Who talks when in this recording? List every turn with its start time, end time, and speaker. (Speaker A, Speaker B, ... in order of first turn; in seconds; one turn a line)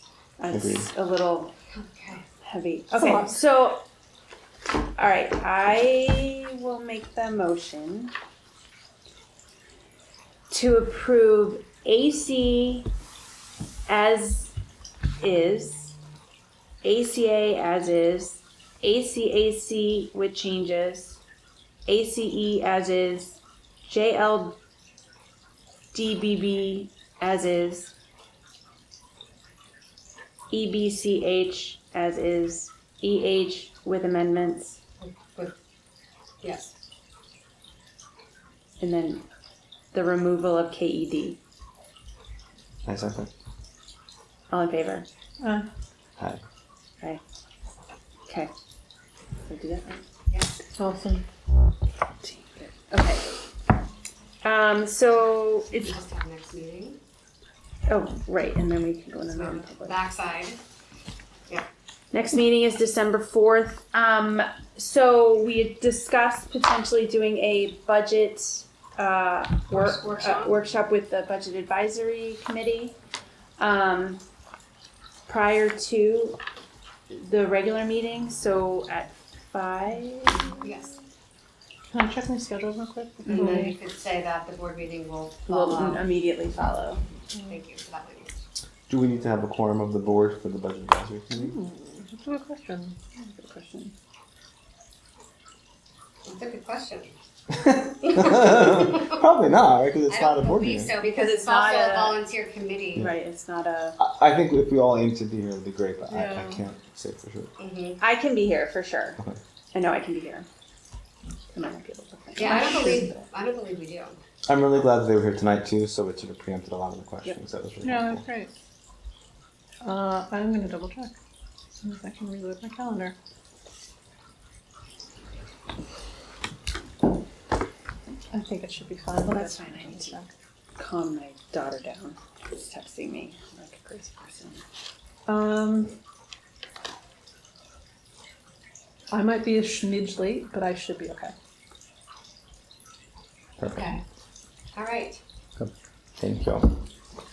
Speaker A: 0.4-1.5
Speaker B: 0.5-0.9
Speaker C: 1.7-2.2
Speaker A: 2.4-3.8
Speaker D: 3.0-3.4
Speaker A: 5.0-8.1
Speaker A: 10.5-12.9
Speaker A: 13.9-14.5
Speaker A: 15.2-15.9
Speaker A: 16.8-21.2
Speaker A: 21.9-24.6
Speaker A: 25.9-27.9
Speaker A: 30.5-34.8
Speaker C: 35.0-35.5
Speaker C: 36.4-36.7
Speaker A: 38.8-39.2
Speaker A: 39.9-41.4
Speaker B: 42.8-43.3
Speaker A: 44.5-45.1
Speaker D: 45.4-45.7
Speaker B: 46.2-46.4
Speaker A: 49.5-50.0
Speaker C: 50.3-50.6
Speaker D: 50.7-51.2
Speaker A: 52.2-53.3
Speaker A: 54.4-56.0
Speaker C: 55.7-57.0
Speaker A: 57.9-60.0
Speaker C: 59.3-60.6
Speaker A: 62.1-72.9
Speaker C: 69.7-70.6
Speaker A: 73.6-74.2
Speaker A: 75.3-76.4
Speaker A: 77.1-80.7
Speaker C: 80.6-80.9
Speaker D: 81.9-83.8
Speaker A: 83.2-83.6
Speaker C: 83.2-86.0
Speaker A: 85.5-87.0
Speaker D: 87.3-87.6
Speaker C: 87.5-88.3
Speaker B: 88.9-91.5
Speaker D: 91.3-93.9
Speaker A: 93.5-93.8
Speaker C: 96.2-97.1
Speaker B: 97.5-101.0
Speaker C: 98.0-99.1
Speaker C: 100.1-103.1
Speaker A: 101.0-102.3
Speaker A: 103.0-104.0
Speaker B: 104.0-107.5
Speaker D: 106.1-106.6
Speaker C: 107.6-108.0
Speaker A: 108.0-109.2
Speaker A: 109.7-110.5
Speaker A: 111.5-113.1
Speaker C: 112.3-114.2
Speaker D: 112.4-113.1
Speaker B: 114.5-118.2
Speaker D: 117.8-118.5
Speaker D: 119.8-121.1
Speaker D: 121.7-123.1
Speaker D: 128.3-130.3
Speaker A: 129.2-130.2
Speaker A: 130.8-134.6
Speaker D: 135.3-135.9
Speaker D: 139.1-141.3
Speaker B: 143.6-143.9
Speaker C: 143.7-144.0
Speaker C: 144.7-145.2
Speaker B: 145.6-146.8